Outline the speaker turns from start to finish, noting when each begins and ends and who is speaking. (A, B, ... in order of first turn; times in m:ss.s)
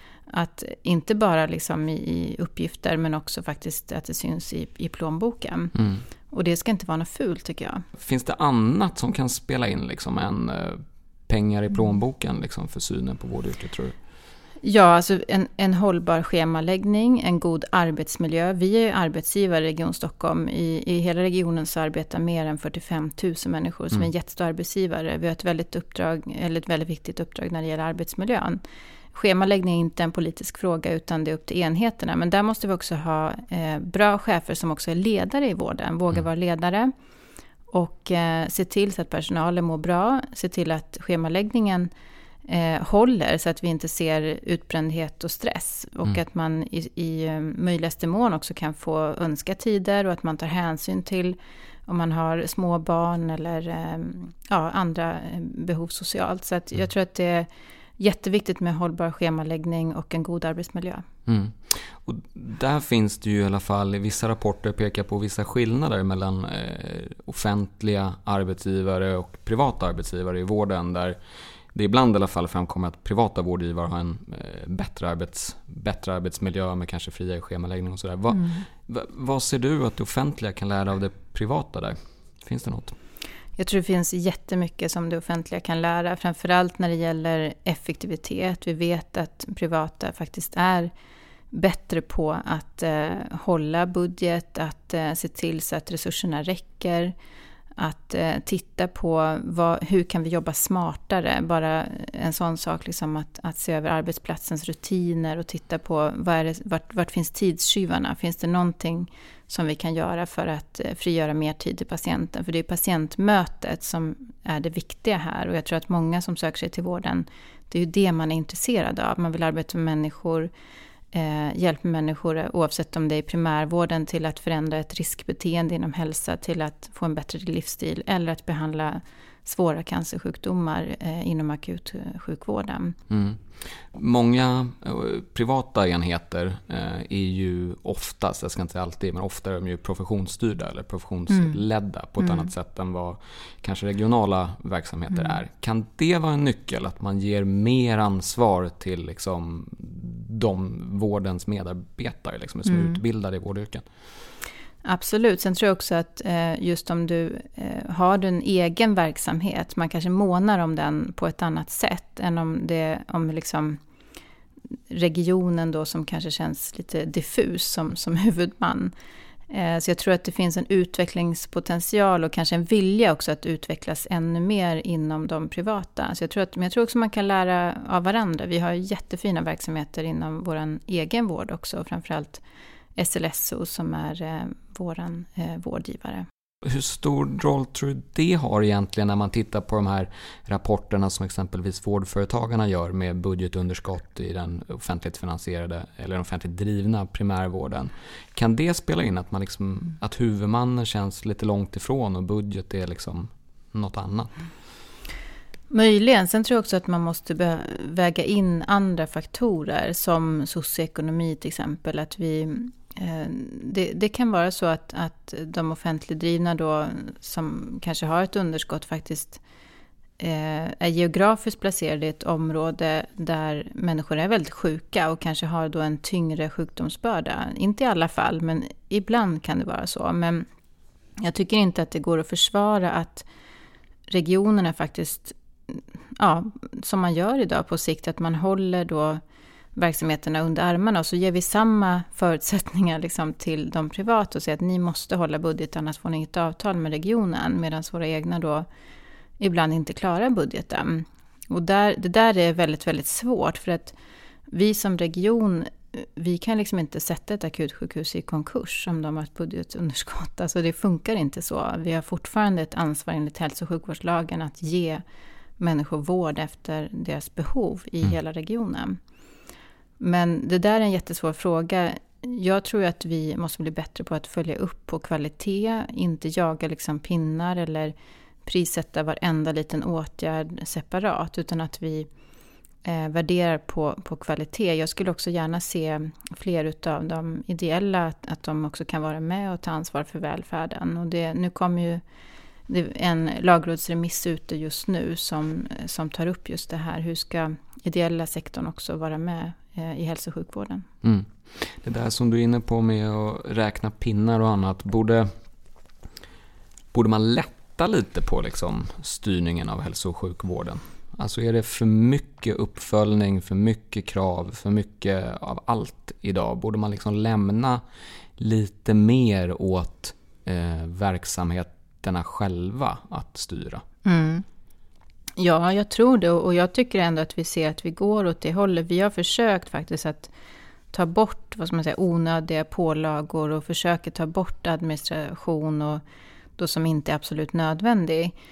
0:00.3-0:05.7 A
0:05.7-0:06.0 B
0:06.3-0:07.8 A
0:08.0-0:13.9 B
0:14.6-0:28.6 A
0:29.1-0:36.9 A
0:37.7-0:41.9 A
0:42.5-0:57.5 A
0:58.0-1:01.1 A
1:01.2-1:11.2 B
1:11.7-1:22.9 B
1:23.6-1:30.9 A
1:31.5-1:37.1 A
1:37.8-2:00.5 A
2:01.1-2:13.0 A
2:13.1-2:33.8 B
2:22.2-2:22.5 A
2:32.7-2:33.0 A
2:34.8-2:43.8 A
2:44.9-2:48.9 A
2:49.5-3:02.4 A
3:03.0-3:06.2 A
3:06.6-3:24.3 B
3:25.7-3:39.4 A
3:40.2-3:50.4 A
3:51.2-3:53.2 A
3:54.1-3:59.2 A
3:59.8-4:08.7 A
4:09.4-4:14.0 A
4:14.5-4:25.0 A
4:25.6-4:29.0 A
4:30.0-4:37.9 A
4:38.4-4:42.1 A
4:42.8-4:52.0 A
4:52.7-5:00.9 A
5:01.0-5:05.3 B
5:06.9-5:17.8 B
5:18.4-5:23.8 B
5:24.0-5:24.4 A
5:25.4-5:30.3 A
5:30.9-5:36.0 A
5:36.6-5:38.3 A